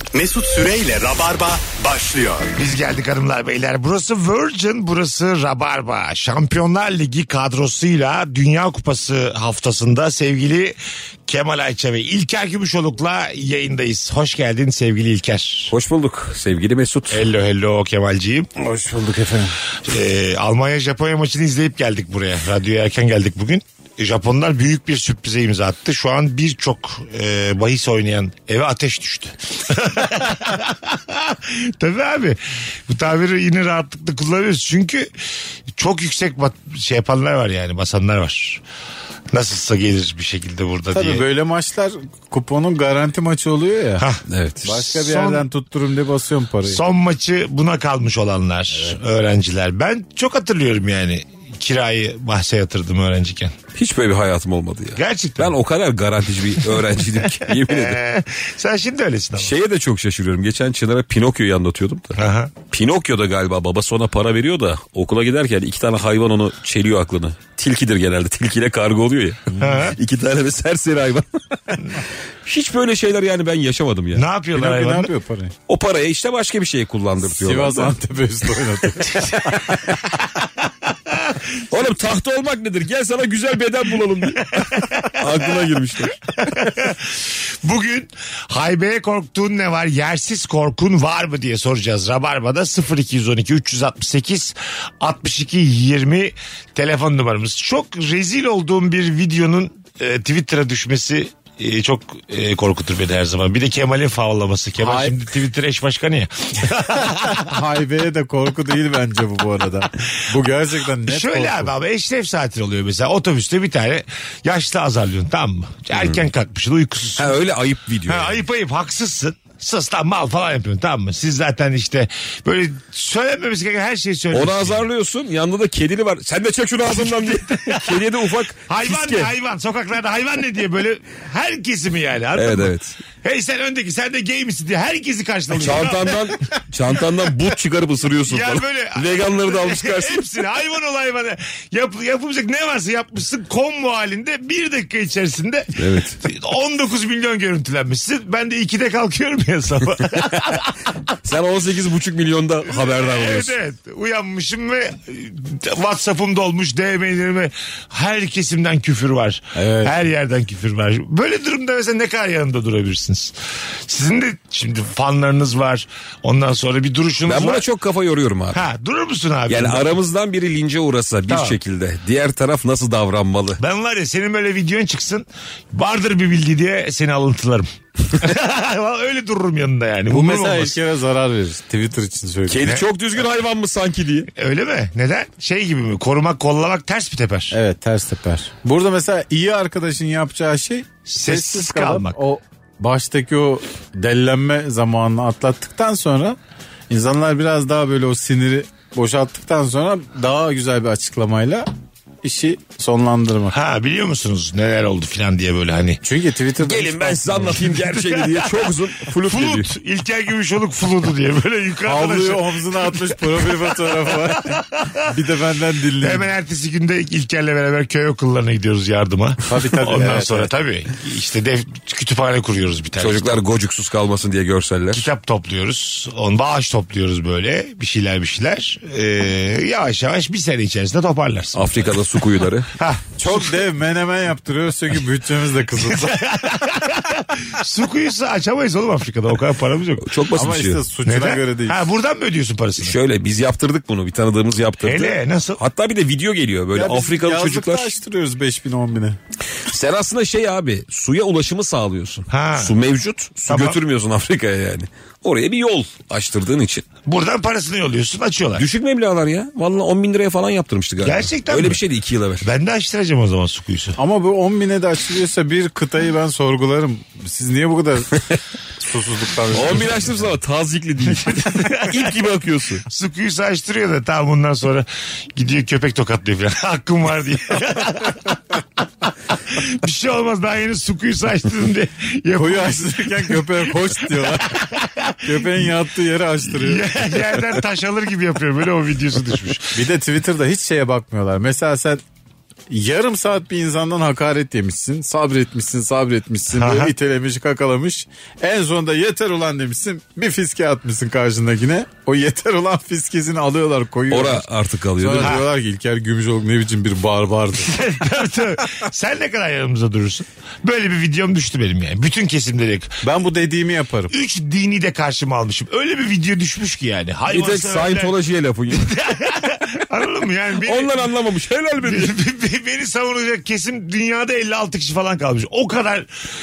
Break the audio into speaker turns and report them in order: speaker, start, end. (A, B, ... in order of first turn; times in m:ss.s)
0:00.1-0:02.5 A
0:02.6-0:10.8 B
0:11.3-0:15.7 B
0:15.7-0:17.2 C
0:17.1-0:18.5 B
0:18.6-0:19.5 D
0:19.8-0:35.1 B
0:35.7-0:38.6 B
0:39.3-0:41.2 B
0:40.9-0:44.0 D
0:44.3-0:44.8 C
0:44.6-0:46.8 D
0:45.0-0:45.4 B
0:46.7-0:53.6 B
0:53.7-0:58.0 C
0:55.0-0:55.5 B
0:57.4-0:59.5 B
0:59.4-1:11.3 C
1:02.2-1:02.5 B
1:09.6-1:10.0 B
1:12.4-1:14.2 C
1:14.1-1:15.1 B
1:14.5-1:15.5 D
1:15.7-1:17.9 C
1:17.2-1:20.0 D
1:21.7-1:26.2 C
1:24.8-1:25.2 B
1:26.5-1:47.5 B
1:44.8-1:45.1 D
1:47.0-1:51.7 D
1:51.1-1:57.4 B
1:57.2-1:58.4 C
1:58.1-2:04.8 B
2:04.3-2:09.3 C
2:06.9-2:16.4 B
2:12.3-2:13.0 C
2:15.5-2:20.2 C
2:18.2-2:30.8 B
2:25.8-2:26.2 C
2:31.2-2:33.6 C
2:32.7-2:43.3 B
2:39.6-2:39.9 D
2:43.9-2:47.6 B
2:47.2-2:48.6 C
2:48.5-2:50.0 B
2:49.5-2:53.6 C
2:51.3-2:51.6 B
2:53.6-3:00.8 B
3:00.1-3:02.6 D
3:02.5-3:04.3 C
3:04.4-3:07.5 B
3:07.5-3:16.4 D
3:11.1-3:12.2 B
3:16.9-3:21.7 D
3:22.2-3:23.5 D
3:23.5-3:26.0 B
3:26.0-3:27.6 D
3:26.6-3:29.7 C
3:27.8-3:28.7 B
3:29.2-3:33.6 B
3:31.8-3:36.3 D
3:34.3-3:35.0 B
3:36.0-3:43.4 B
3:39.4-3:40.5 D
3:43.0-3:45.0 C
3:44.9-3:51.9 B
3:51.5-3:52.7 C
3:52.8-3:53.4 B
3:53.2-3:56.2 D
3:55.8-4:00.0 B
4:00.0-4:00.8 C
4:00.4-4:01.8 D
4:01.0-4:02.9 B
4:02.8-4:07.9 C
4:04.8-4:05.6 B
4:06.7-4:09.2 D
4:09.6-4:16.8 C
4:12.3-4:12.7 B
4:13.4-4:13.8 B
4:17.0-4:18.7 B
4:18.5-4:22.5 C
4:21.0-4:21.8 B
4:22.4-4:24.0 B
4:24.0-4:28.2 D
4:28.8-4:30.2 D
4:29.5-4:32.8 C
4:31.4-4:32.2 B
4:32.8-4:38.4 B
4:39.5-4:43.4 B
4:42.4-4:44.6 D
4:44.0-4:45.2 B
4:45.2-4:47.2 D
4:46.6-4:49.7 B
4:49.7-4:52.0 D
4:52.7-5:04.4 D
4:56.5-4:56.9 B
5:04.1-5:05.4 C
5:05.0-5:07.7 D
5:05.2-5:05.4 B
5:07.6-5:13.0 B
5:13.0-5:14.1 D
5:14.1-5:18.2 B
5:17.3-5:18.9 C
5:18.7-5:21.0 B
5:20.6-5:22.2 C
5:21.8-5:26.1 B